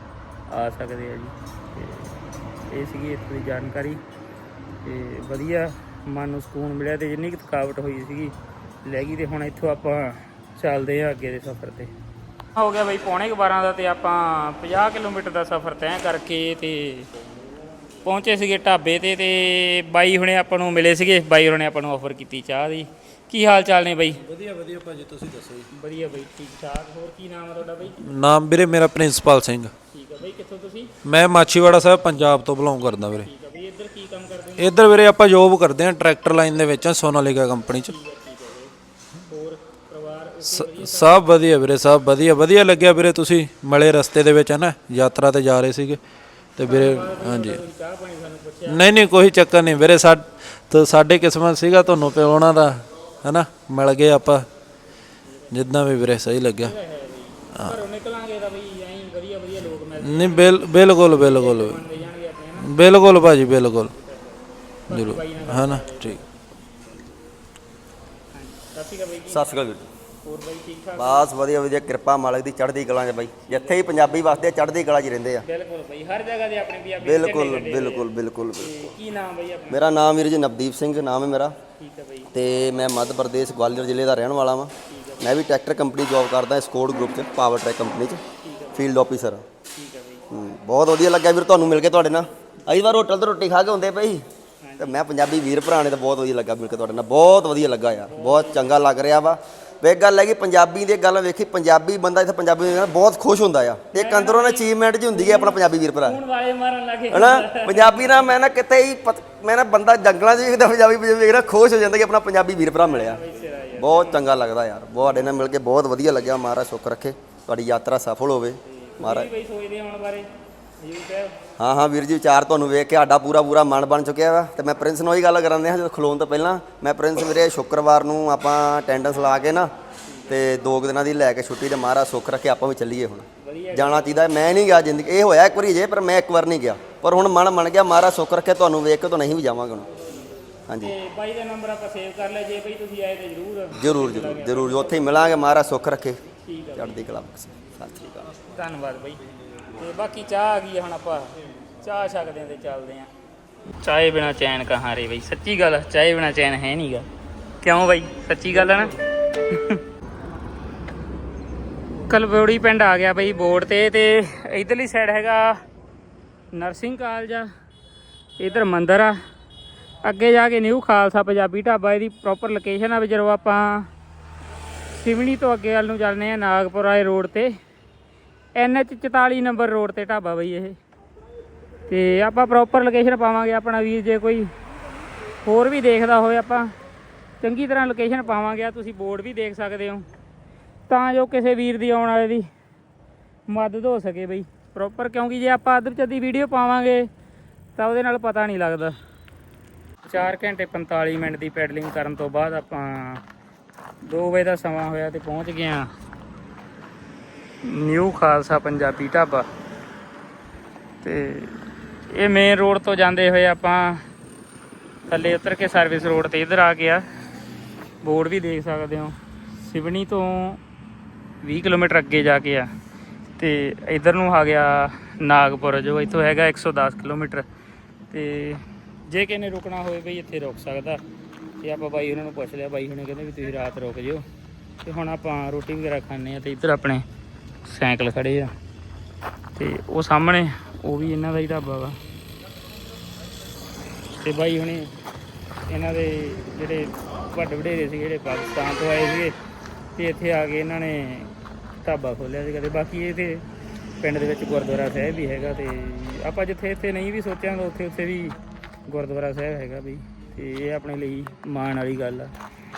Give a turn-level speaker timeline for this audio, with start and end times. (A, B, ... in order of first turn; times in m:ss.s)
0:00.5-0:02.2 A
0:02.7-0:04.0 A
0:04.8-0:11.9 A
0:12.6-0:17.1 A
0:18.0-0:24.2 A
0:24.3-0:25.7 B
0:25.7-0:28.0 A
0:28.0-0:29.7 B
0:29.9-0:30.9 A
0:31.0-0:33.3 B
0:33.2-0:34.8 A
0:34.6-0:37.9 B
0:37.8-0:38.7 A
0:39.3-0:41.3 A
0:40.4-0:46.0 B
0:46.6-0:47.6 B
0:46.6-0:48.8 A
0:48.7-0:54.4 B
0:55.2-0:55.6 A
0:55.5-0:56.7 B
0:56.6-1:02.7 A
1:00.0-1:01.8 B
1:02.6-1:03.9 B
1:03.9-1:06.3 A
1:04.9-1:06.2 B
1:08.3-1:09.5 A
1:09.3-1:09.9 C
1:10.2-1:11.3 A
1:11.0-1:15.4 C
1:13.4-1:14.5 A
1:15.4-1:19.8 A
1:17.0-1:19.0 C
1:19.7-1:21.6 C
1:21.8-1:22.4 A
1:22.3-1:29.4 C
1:24.9-1:25.4 A
1:28.4-1:28.9 A
1:29.7-1:30.3 A
1:30.3-1:34.2 C
1:32.6-1:32.8 A
1:34.6-1:35.0 A
1:34.8-1:46.2 C
1:38.0-1:38.7 A
1:43.9-1:48.3 A
1:47.1-1:53.2 C
1:52.8-1:54.3 A
1:53.8-1:59.3 C
1:55.0-1:55.3 A
1:58.7-2:00.3 A
2:00.8-2:01.4 A
2:01.6-2:09.7 C
2:10.0-2:10.4 A
2:10.3-2:19.9 C
2:13.4-2:14.4 A
2:20.7-2:20.9 C
2:20.8-2:25.2 A
2:23.7-2:26.2 C
2:26.4-2:27.0 A
2:26.7-2:28.0 C
2:28.0-2:29.2 A
2:29.7-2:33.1 A
2:33.8-2:37.1 A
2:37.6-2:39.0 A
2:39.5-2:39.8 A
2:42.1-2:45.6 A
2:46.5-2:47.5 A
2:48.4-2:49.2 A
2:50.0-2:53.9 A
2:54.9-2:57.5 A
2:58.5-3:00.8 A
3:01.9-3:04.5 A
3:05.4-3:06.7 A
3:07.4-3:10.0 A
3:10.9-3:12.5 A
3:13.5-3:17.1 A
3:17.8-3:19.0 A
3:20.1-3:23.2 A
3:24.0-3:25.9 A
3:27.6-3:29.5 A
3:31.0-3:31.5 A
3:32.1-3:34.0 A
3:35.1-3:37.0 A
3:38.0-3:40.6 A
3:41.4-3:42.7 A
3:43.4-3:47.4 A
3:48.1-3:51.0 A
3:51.6-3:54.2 A
3:54.8-3:57.0 A
3:57.6-3:58.5 A
3:59.6-4:02.0 A
4:04.2-4:04.9 A
4:05.7-4:09.4 A
4:10.0-4:11.3 A
4:11.8-4:13.4 A
4:14.0-4:18.4 A
4:18.9-4:22.3 A